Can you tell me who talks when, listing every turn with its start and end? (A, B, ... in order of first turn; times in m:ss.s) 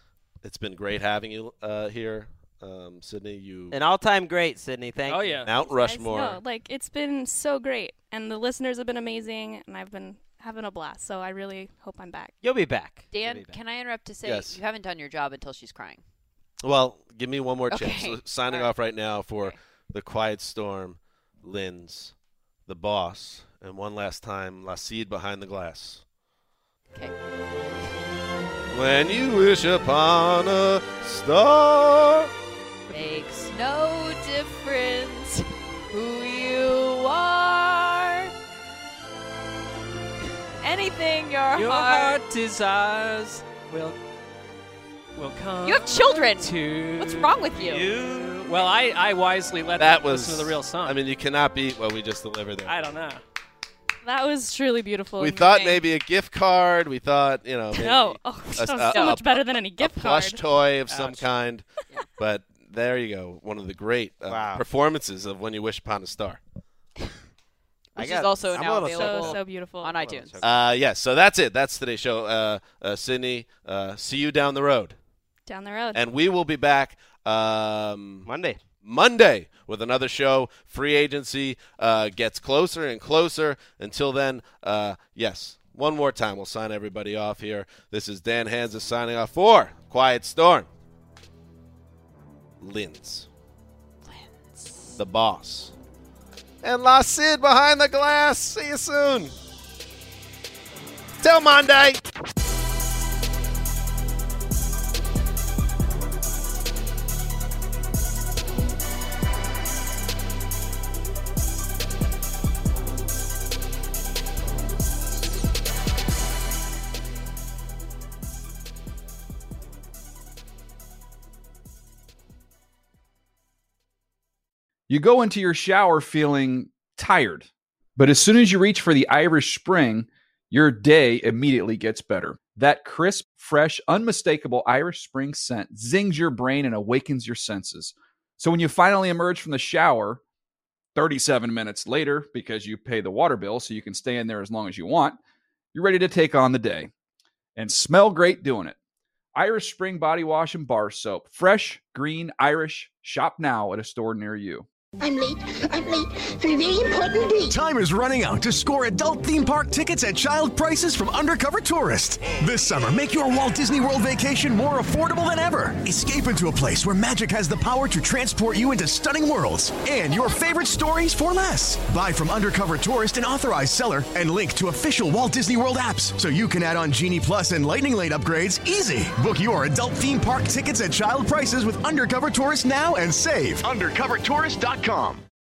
0:00.4-0:03.8 A
0:03.7-0:05.5 B
0:05.1-0:05.5 C
0:05.4-0:06.4 A
0:05.6-0:12.4 D
0:12.4-0:13.6 B
0:13.1-0:16.0 E
0:14.2-0:14.6 A
0:16.6-0:22.1 A
0:17.7-0:18.7 E
0:22.7-0:26.0 A
0:28.7-0:32.3 A
0:32.9-0:38.3 E
0:40.6-0:42.2 E
0:41.6-0:44.0 C
0:45.2-0:47.4 C
0:45.6-0:47.9 E
0:47.6-0:48.7 B
0:48.4-0:51.0 C
0:49.8-0:52.8 A
0:52.6-0:53.2 C
0:54.0-0:55.8 D
0:55.2-1:06.4 A
0:57.7-1:00.4 D
1:00.9-1:01.3 C
1:04.3-1:04.6 B
1:08.0-1:10.7 B
1:08.0-1:10.4 E
1:08.8-1:10.0 D
1:10.4-1:15.0 A
1:15.5-1:16.0 D
1:15.9-1:18.3 A
1:18.2-1:18.6 B
1:18.8-1:30.7 A
1:32.6-1:33.3 A
1:34.1-1:34.9 E
1:35.0-1:35.7 A
1:36.6-1:39.3 A
1:41.2-1:42.0 A
2:04.9-2:20.2 F
2:21.0-2:25.2 F
2:25.7-2:26.9 F
2:27.6-2:28.8 F
2:29.4-2:34.7 F
2:35.0-2:37.6 G
2:37.5-3:05.2 H